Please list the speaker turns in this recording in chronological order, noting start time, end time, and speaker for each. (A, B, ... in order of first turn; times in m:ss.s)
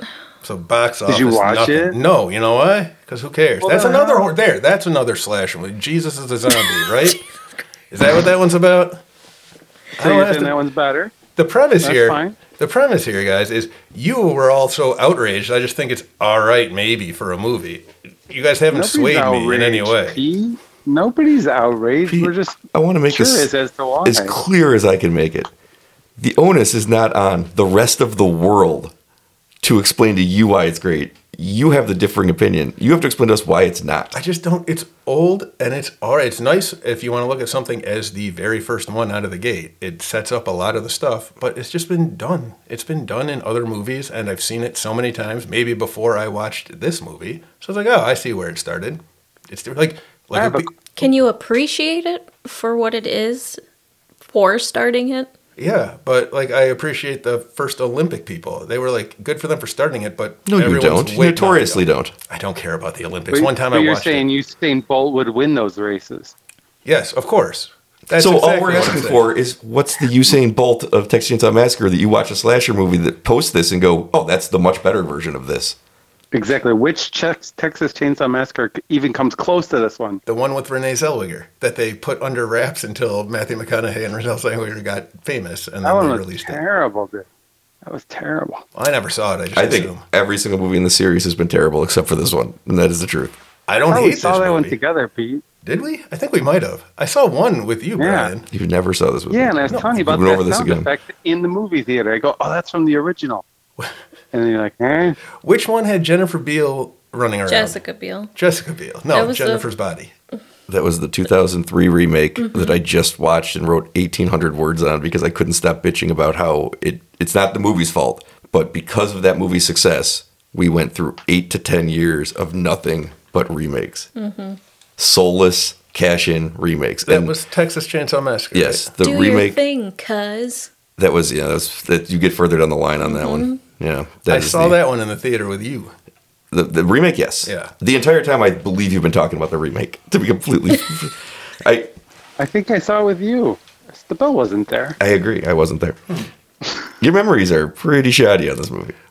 0:00.4-0:07.2 A
0:01.1-0:02.0 B
0:03.6-0:04.3 B
0:07.9-0:09.0 A
0:10.0-0:10.6 A
0:10.0-0:11.2 B
0:11.4-0:20.2 A
0:11.8-0:12.4 B
0:18.7-0:24.4 B
0:22.1-0:23.5 C
0:24.0-0:25.5 C
0:26.2-0:28.9 C
0:29.6-0:34.2 C
0:34.1-0:50.9 A
0:50.3-0:50.7 B
0:51.0-0:53.6 D
0:54.3-0:55.3 D
0:55.6-1:04.3 A
1:00.5-1:02.1 C
1:03.3-1:06.4 B
1:06.8-1:09.2 A
1:08.2-1:15.8 C
1:16.3-1:20.2 B
1:20.3-1:26.6 A
1:25.8-1:27.3 B
1:27.8-1:28.6 B
1:28.8-1:30.0 A
1:29.5-1:33.3 C
1:33.7-1:34.8 A
1:33.9-1:35.4 B
1:35.6-1:38.5 A
1:38.0-1:38.3 B
1:38.5-1:40.9 C
1:39.3-1:43.4 B
1:44.3-1:45.2 B
1:45.4-1:47.8 A
1:47.5-1:48.3 D
1:48.4-1:50.1 A
1:49.1-1:49.7 D
1:50.7-2:04.1 C
1:52.4-1:52.8 D
2:04.2-2:04.6 D
2:05.0-2:07.4 C
2:07.1-2:08.9 A
2:08.5-2:09.6 C
2:09.0-2:10.7 D
2:11.0-2:14.8 C
2:13.0-2:13.6 D
2:14.3-2:15.9 A
2:16.5-2:21.9 C
2:17.4-2:17.7 A
2:22.4-2:25.0 B
2:25.0-2:26.0 C
2:27.0-2:29.0 C